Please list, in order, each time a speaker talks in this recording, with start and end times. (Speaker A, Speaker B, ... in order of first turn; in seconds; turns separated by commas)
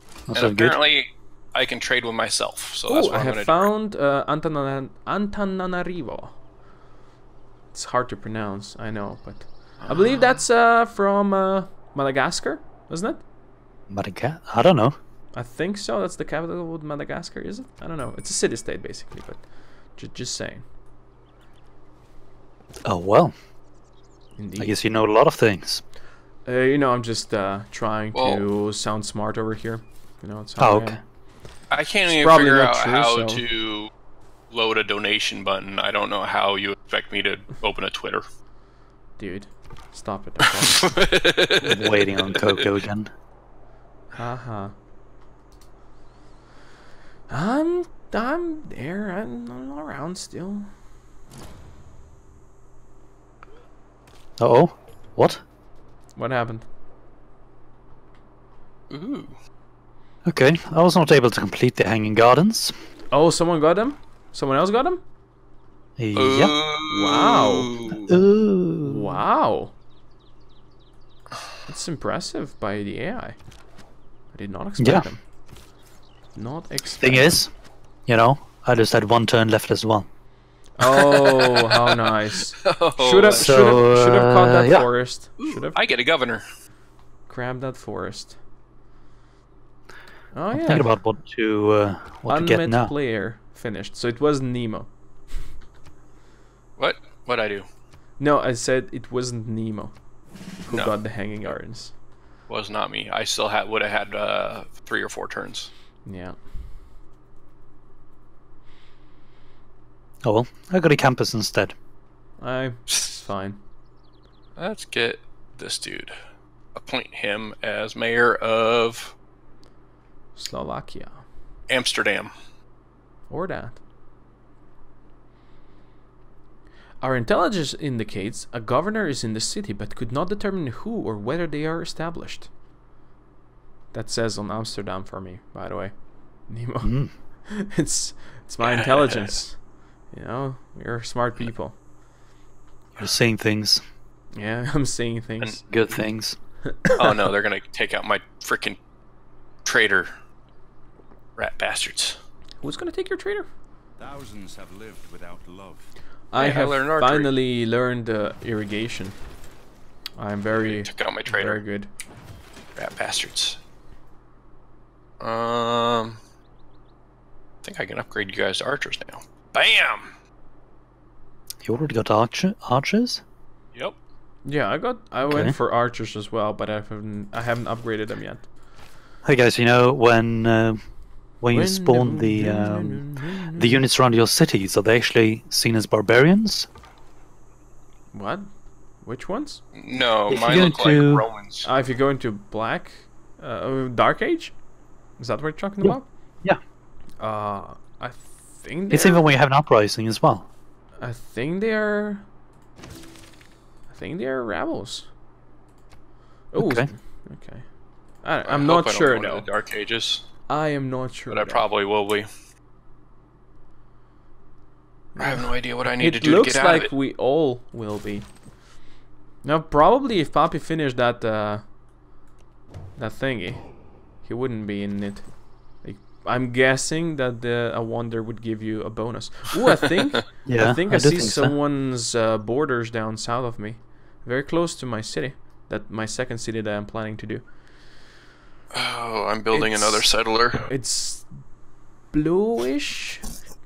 Speaker A: 0.3-0.8, Speaker B: 0.3-3.7, Speaker C: 2.9-6.4, Speaker C: 7.7-13.2, Speaker B: 9.8-10.3, Speaker A: 13.9-14.9, Speaker C: 15.3-19.4, Speaker C: 19.9-20.6, Speaker A: 22.8-23.3, Speaker C: 24.4-24.7, Speaker A: 24.6-25.8, Speaker C: 26.4-31.0, Speaker B: 28.1-28.4, Speaker A: 30.6-31.0, Speaker B: 31.7-33.9, Speaker C: 32.1-33.4, Speaker B: 34.5-38.2, Speaker C: 39.2-40.9, Speaker B: 40.7-42.6, Speaker A: 41.6-43.1, Speaker C: 44.1-44.7, Speaker C: 47.3-50.7, Speaker A: 54.4-55.4, Speaker C: 56.1-56.7, Speaker B: 58.9-59.3, Speaker A: 60.2-62.7, Speaker C: 63.1-65.0, Speaker A: 66.0-66.5, Speaker B: 66.1-68.1, Speaker C: 66.9-67.8, Speaker A: 68.0-69.2, Speaker C: 68.8-69.7, Speaker C: 71.7-73.4, Speaker C: 74.3-75.2, Speaker A: 74.8-75.1, Speaker C: 76.3-77.4, Speaker A: 77.0-77.5, Speaker A: 78.1-80.1, Speaker C: 80.8-85.8, Speaker B: 80.8-83.5, Speaker A: 83.3-84.9, Speaker B: 85.4-86.4, Speaker C: 87.3-88.4, Speaker C: 90.3-90.9, Speaker A: 90.5-92.9, Speaker C: 92.3-94.9, Speaker B: 96.8-97.7, Speaker C: 98.2-99.9, Speaker C: 100.6-101.9, Speaker B: 102.5-105.7, Speaker C: 106.0-106.3, Speaker A: 110.2-111.7, Speaker C: 112.4-113.6, Speaker B: 114.6-116.1, Speaker B: 116.7-119.1, Speaker C: 120.3-121.2, Speaker B: 121.7-122.3, Speaker C: 123.3-123.8, Speaker C: 127.0-132.5, Speaker C: 133.9-135.9, Speaker C: 136.5-141.8, Speaker A: 136.8-137.1, Speaker B: 138.6-139.3, Speaker A: 143.0-143.8, Speaker C: 144.3-145.6, Speaker A: 145.7-146.4, Speaker C: 146.7-147.0, Speaker B: 146.9-148.8, Speaker B: 149.6-150.1, Speaker B: 151.3-152.2, Speaker C: 152.6-153.5, Speaker D: 154.0-155.9, Speaker C: 156.3-159.2, Speaker B: 156.3-157.3, Speaker C: 160.2-161.9, Speaker B: 160.5-161.6, Speaker B: 162.8-163.6, Speaker B: 165.2-166.2, Speaker B: 167.6-170.1, Speaker A: 171.6-173.2, Speaker C: 174.4-178.5, Speaker A: 175.2-175.6, Speaker A: 179.2-180.8, Speaker A: 181.4-186.7, Speaker C: 181.5-183.8, Speaker C: 188.1-188.4, Speaker C: 189.0-189.6, Speaker B: 189.7-191.7, Speaker A: 190.3-191.2, Speaker C: 191.6-194.6, Speaker C: 195.2-196.1, Speaker A: 195.8-196.6, Speaker C: 197.2-199.2, Speaker A: 198.9-200.5, Speaker C: 201.0-202.2, Speaker C: 203.9-205.1, Speaker C: 206.5-207.7, Speaker A: 206.6-206.9, Speaker C: 208.2-209.5, Speaker B: 208.4-210.2, Speaker C: 210.5-211.6, Speaker B: 211.3-212.3, Speaker C: 215.1-218.3, Speaker B: 215.2-216.9, Speaker C: 219.4-221.6, Speaker C: 222.9-237.4, Speaker A: 230.4-231.5, Speaker B: 238.7-240.7, Speaker C: 239.5-240.1, Speaker C: 240.6-241.3, Speaker C: 242.1-243.2